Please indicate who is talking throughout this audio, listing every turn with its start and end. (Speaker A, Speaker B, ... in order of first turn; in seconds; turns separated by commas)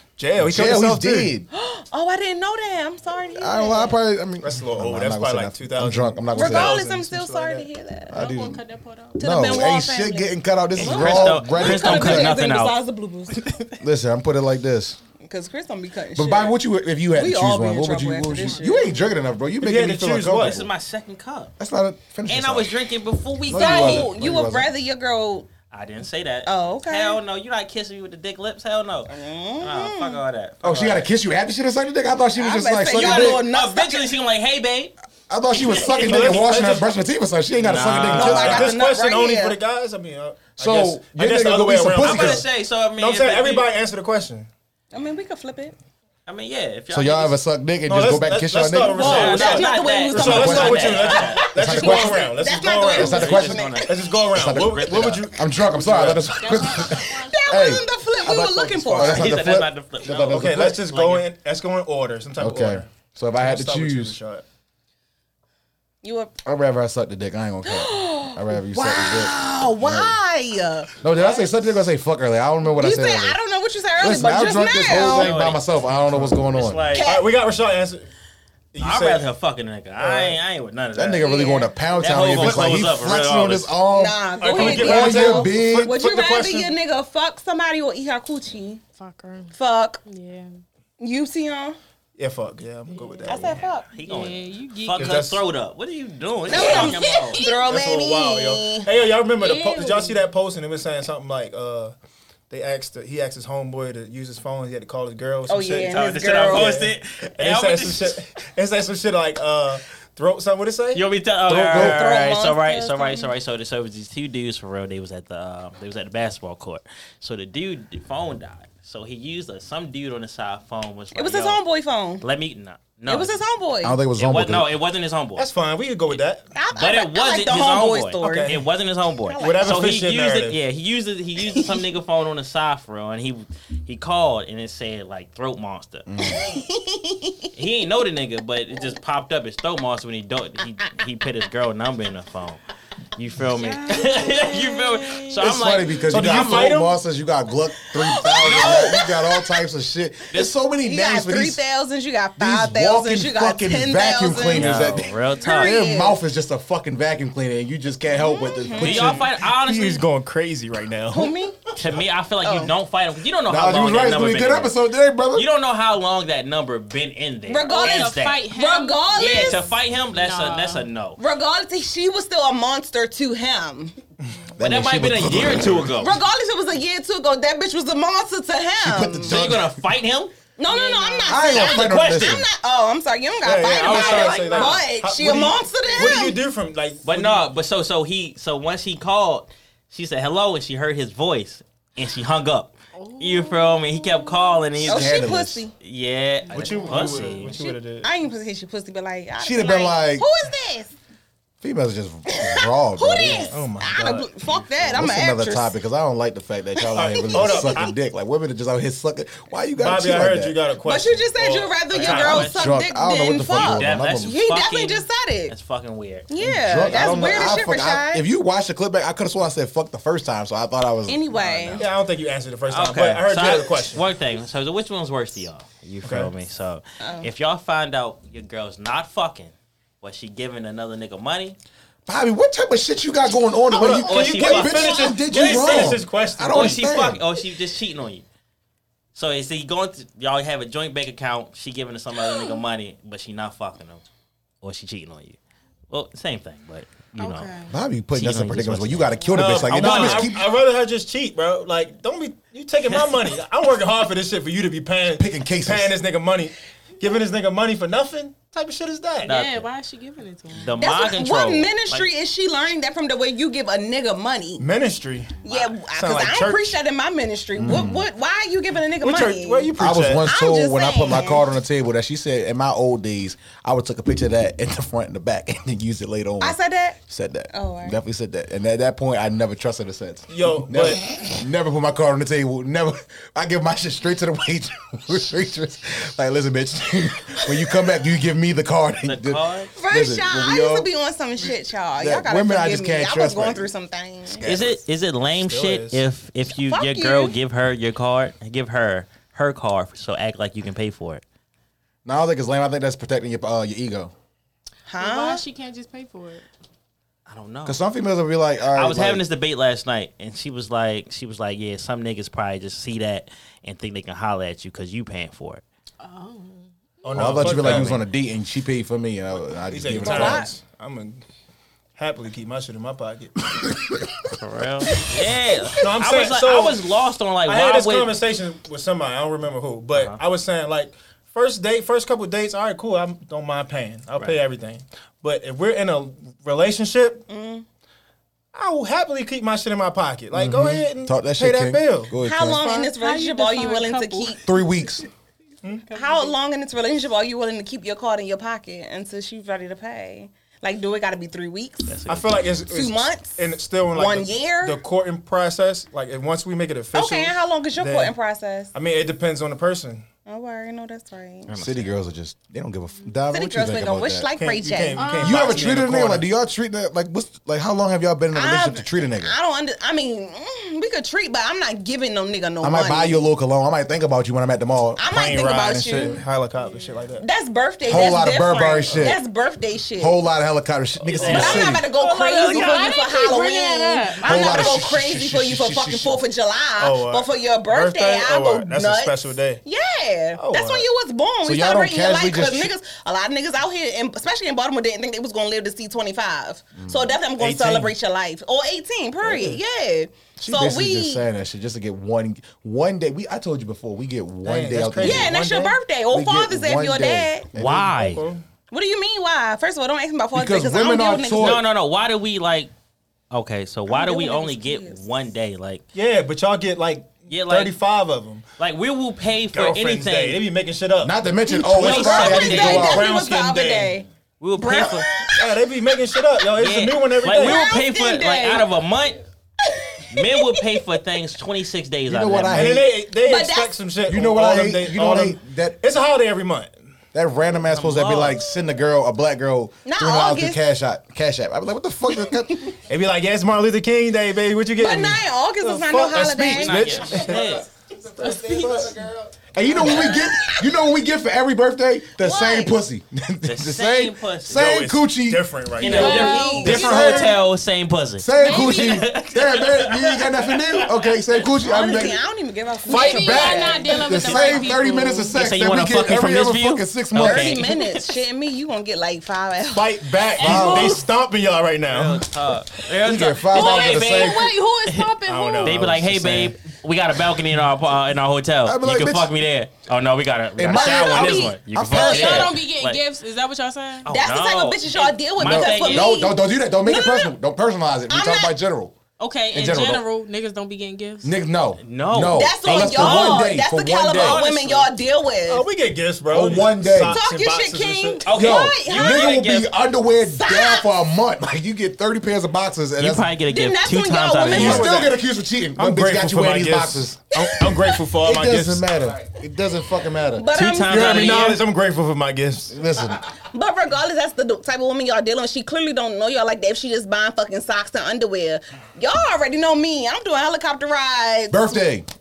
Speaker A: 0.2-1.3, Speaker B: 0.4-1.5, Speaker C: 1.5-4.0, Speaker B: 3.3-6.8, Speaker A: 4.4-7.7, Speaker C: 6.3-8.2, Speaker B: 8.1-8.6, Speaker D: 8.1-9.2, Speaker C: 9.2-13.5, Speaker B: 9.2-12.3, Speaker E: 10.8-12.8, Speaker B: 13.8-15.0, Speaker C: 15.2-16.6, Speaker B: 16.1-20.7, Speaker C: 17.1-18.9, Speaker A: 19.6-20.6, Speaker E: 20.4-21.5, Speaker B: 21.6-22.7, Speaker E: 22.2-24.1, Speaker B: 23.5-24.7, Speaker C: 23.5-25.5, Speaker E: 25.7-31.1, Speaker C: 26.4-27.2, Speaker C: 29.1-30.2, Speaker B: 30.6-33.5, Speaker C: 32.4-34.1, Speaker E: 32.9-34.9, Speaker B: 35.3-38.7, Speaker E: 35.5-36.5, Speaker A: 36.0-36.9, Speaker E: 37.6-38.6, Speaker A: 37.7-44.5, Speaker C: 38.1-39.6, Speaker B: 40.6-42.4, Speaker E: 42.0-43.7, Speaker C: 44.9-45.7, Speaker E: 46.2-47.4, Speaker B: 46.9-49.4, Speaker A: 47.9-56.5, Speaker E: 48.9-51.5, Speaker C: 48.9-54.1, Speaker B: 50.1-52.3, Speaker B: 52.9-53.7, Speaker E: 52.9-55.2, Speaker B: 54.3-60.8, Speaker D: 56.4-57.5, Speaker C: 56.9-59.3, Speaker E: 59.0-61.3, Speaker A: 60.3-64.4, Speaker B: 62.4-64.2, Speaker C: 66.0-66.3, Speaker B: 66.4-70.2, Speaker C: 67.6-70.9, Speaker B: 71.0-73.4, Speaker E: 71.2-71.5, Speaker C: 72.8-75.3, Speaker B: 74.0-76.8, Speaker E: 74.9-77.1, Speaker A: 76.1-78.0, Speaker C: 76.9-77.3, Speaker A: 78.7-79.2, Speaker E: 78.8-81.4, Speaker A: 80.0-80.4, Speaker B: 80.9-85.9, Speaker C: 81.2-81.7, Speaker E: 81.9-83.7, Speaker A: 82.3-83.0, Speaker C: 83.9-88.8, Speaker A: 84.4-86.8, Speaker D: 89.0-89.5, Speaker C: 89.5-90.0, Speaker D: 90.0-90.5, Speaker C: 91.0-91.8, Speaker A: 92.2-93.6, Speaker D: 92.9-93.4, Speaker C: 93.2-93.8, Speaker E: 93.8-97.4, Speaker D: 94.0-95.2, Speaker A: 95.0-95.4, Speaker C: 96.5-98.9, Speaker A: 96.5-96.9, Speaker D: 97.0-97.5, Speaker A: 97.4-101.9, Speaker D: 99.4-100.2, Speaker A: 102.5-111.0, Speaker C: 105.5-106.8, Speaker E: 105.9-108.2, Speaker E: 110.9-121.6, Speaker B: 111.5-112.0, Speaker C: 111.7-113.3, Speaker C: 121.1-122.2, Speaker E: 122.2-123.4, Speaker C: 123.1-124.0, Speaker B: 123.8-124.7, Speaker E: 124.2-125.5, Speaker A: 125.3-126.5, Speaker C: 126.5-128.6, Speaker E: 126.8-136.1, Speaker A: 128.2-128.6, Speaker C: 129.2-129.8, Speaker A: 129.4-130.6, Speaker C: 131.5-131.8, Speaker B: 136.1-136.4, Speaker C: 136.2-137.5, Speaker E: 137.5-142.6, Speaker E: 143.2-146.7, Speaker D: 143.6-145.4, Speaker B: 145.4-151.6, Speaker A: 146.1-146.9, Speaker C: 148.0-149.6, Speaker E: 148.3-149.0, Speaker C: 150.8-156.2, Speaker B: 152.4-159.3, Speaker E: 154.5-155.8, Speaker C: 158.2-159.1, Speaker E: 158.8-160.1, Speaker A: 158.8-161.3, Speaker C: 161.1-161.6, Speaker E: 161.7-164.8, Speaker C: 162.4-162.7, Speaker B: 163.5-165.5, Speaker E: 165.3-168.4, Speaker C: 167.5-169.7, Speaker D: 167.7-170.8, Speaker E: 169.2-171.2, Speaker C: 171.2-173.9, Speaker B: 174.6-176.1, Speaker E: 174.6-176.2, Speaker C: 176.0-179.4, Speaker B: 178.8-179.7, Speaker E: 179.2-180.3, Speaker C: 180.6-186.4, Speaker D: 180.7-181.5, Speaker B: 181.3-182.5, Speaker E: 181.5-182.4, Speaker A: 183.4-187.5, Speaker E: 183.7-184.8, Speaker E: 187.0-197.6, Speaker D: 192.9-194.6, Speaker B: 194.8-195.6, Speaker C: 194.8-195.7, Speaker D: 196.5-197.5, Speaker A: 196.5-198.1, Speaker C: 197.4-200.9, Speaker B: 199.4-200.2, Speaker B: 201.6-203.5, Speaker C: 202.3-205.7, Speaker E: 203.2-203.5, Speaker A: 203.5-204.3, Speaker B: 204.9-210.6, Speaker C: 206.8-207.9, Speaker A: 207.0-207.9, Speaker A: 209.8-212.4, Speaker C: 210.8-215.5, Speaker E: 211.9-212.7, Speaker B: 212.3-214.3, Speaker E: 213.5-217.6, Speaker C: 216.3-218.2, Speaker B: 216.4-221.2, Speaker C: 221.1-221.9, Speaker E: 221.3-221.8, Speaker A: 221.8-224.0, Speaker E: 222.7-231.6, Speaker A: 226.0-226.3, Speaker C: 227.0-227.3, Speaker B: 232.1-237.2, Speaker A: 233.7-236.8, Speaker E: 234.0-238.2, Speaker E: 239.1-244.0, Speaker E: 244.6-245.4, Speaker E: 245.9-247.5, Speaker D: 247.2-247.7, Speaker B: 247.7-250.5, Speaker E: 248.1-250.3, Speaker A: 249.3-259.3, Speaker B: 255.2-255.9, Speaker E: 259.2-259.7, Speaker D: 259.2-260.8, Speaker E: 260.5-262.1, Speaker C: 260.8-264.6, Speaker A: 264.6-266.8, Speaker C: 265.4-269.7, Speaker B: 267.6-268.1, Speaker A: 269.0-270.2, Speaker B: 269.8-290.9, Speaker C: 270.2-271.4, Speaker C: 276.4-277.0, Speaker C: 277.5-278.0, Speaker A: 280.3-281.0, Speaker E: 289.0-289.7, Speaker C: 289.7-294.4, Speaker B: 292.0-293.7, Speaker B: 294.3-294.8, Speaker E: 294.4-301.2, Speaker A: 295.4-296.0, Speaker C: 296.5-297.3, Speaker B: 302.0-304.1, Speaker C: 304.9-305.4, Speaker D: 305.0-306.4, Speaker E: 307.3-307.8, Speaker B: 307.6-309.2, Speaker E: 308.7-315.6, Speaker D: 316.0-316.7, Speaker A: 317.0-318.0, Speaker B: 317.1-320.5, Speaker E: 317.2-318.0, Speaker A: 319.7-321.2, Speaker C: 320.0-320.5, Speaker A: 321.9-323.5, Speaker B: 323.6-324.3, Speaker E: 324.3-328.2, Speaker A: 325.8-326.8, Speaker A: 327.4-337.2, Speaker C: 337.3-337.6, Speaker A: 338.5-342.2, Speaker B: 340.3-342.6, Speaker C: 342.2-344.4, Speaker D: 342.5-344.6, Speaker B: 344.4-345.1, Speaker D: 345.9-346.3, Speaker C: 345.9-352.0, Speaker E: 351.9-352.5, Speaker A: 352.1-358.1, Speaker C: 352.7-354.8, Speaker C: 356.9-358.7, Speaker A: 358.7-360.1, Speaker C: 360.2-361.5, Speaker E: 361.5-361.9, Speaker B: 361.6-364.3, Speaker C: 363.3-365.1, Speaker A: 364.4-366.2, Speaker D: 365.0-365.6, Speaker B: 365.2-369.3, Speaker C: 368.3-373.2, Speaker B: 372.6-375.0, Speaker C: 375.0-376.2, Speaker A: 375.0-377.2, Speaker C: 377.2-380.2, Speaker B: 377.9-379.2, Speaker B: 380.0-381.9, Speaker A: 381.0-381.7, Speaker E: 381.1-381.7, Speaker C: 381.2-401.2, Speaker D: 381.8-384.8, Speaker E: 382.4-382.8, Speaker B: 384.2-386.2, Speaker A: 386.8-389.6, Speaker A: 390.4-390.9, Speaker B: 391.4-392.7, Speaker B: 396.8-397.1, Speaker A: 397.4-397.9, Speaker A: 399.2-399.6, Speaker B: 400.4-405.4, Speaker A: 404.4-405.8, Speaker C: 405.0-407.5, Speaker B: 406.1-407.9, Speaker E: 407.5-408.2, Speaker A: 407.9-408.4, Speaker C: 408.7-411.6, Speaker B: 410.3-411.6, Speaker E: 411.3-412.7, Speaker E: 413.3-415.8, Speaker C: 413.9-415.0, Speaker A: 415.9-418.4, Speaker E: 417.3-417.7, Speaker E: 418.6-420.4, Speaker A: 419.5-421.1, Speaker B: 421.0-423.0, Speaker C: 421.5-425.6, Speaker E: 421.7-423.0, Speaker A: 421.8-424.0, Speaker E: 424.4-425.1, Speaker A: 425.4-427.6, Speaker E: 426.6-429.2, Speaker C: 427.3-428.6, Speaker C: 429.6-430.8, Speaker E: 430.1-432.8, Speaker B: 432.1-432.9, Speaker A: 432.5-436.7, Speaker C: 433.2-433.7, Speaker B: 434.1-435.8, Speaker B: 437.1-442.7, Speaker E: 437.7-438.4, Speaker C: 439.8-440.6, Speaker A: 442.9-447.6, Speaker C: 444.8-447.2, Speaker E: 446.5-447.7, Speaker D: 448.1-449.1, Speaker B: 448.2-455.5, Speaker C: 449.7-450.7, Speaker C: 452.2-452.8, Speaker E: 453.4-454.6, Speaker A: 454.5-456.3, Speaker E: 455.8-461.1, Speaker C: 455.8-457.3, Speaker D: 455.9-457.2, Speaker B: 456.6-457.4, Speaker B: 458.2-462.2, Speaker D: 458.3-459.1, Speaker C: 461.6-464.6, Speaker D: 462.9-465.4, Speaker A: 462.9-463.3, Speaker B: 463.0-467.6, Speaker E: 464.2-464.6, Speaker E: 465.3-468.2, Speaker C: 467.2-470.9, Speaker A: 469.7-472.3, Speaker B: 470.4-471.0, Speaker E: 470.4-470.8, Speaker E: 471.9-483.0, Speaker B: 473.0-474.5, Speaker D: 473.5-475.8, Speaker A: 475.2-476.5, Speaker B: 478.6-479.3, Speaker B: 480.6-482.5, Speaker C: 480.7-482.5, Speaker D: 481.9-484.1, Speaker E: 484.0-486.2, Speaker C: 484.1-487.3, Speaker B: 485.4-489.0, Speaker C: 488.1-488.5, Speaker D: 489.2-491.4, Speaker B: 489.5-490.0, Speaker B: 491.2-494.4, Speaker E: 491.8-493.5, Speaker C: 492.3-495.6, Speaker E: 494.1-494.9, Speaker A: 495.5-498.2, Speaker B: 496.3-497.2, Speaker C: 496.9-499.4, Speaker E: 498.2-499.7, Speaker B: 498.3-503.3, Speaker C: 500.2-500.9, Speaker E: 503.0-504.9, Speaker C: 503.5-505.1, Speaker A: 504.5-505.2, Speaker B: 504.5-507.2, Speaker A: 505.8-508.9, Speaker C: 507.4-508.0, Speaker B: 508.2-510.6, Speaker C: 510.4-511.5, Speaker E: 510.5-511.6, Speaker A: 510.9-512.8, Speaker B: 512.7-513.2, Speaker C: 513.4-521.8, Speaker B: 521.5-522.1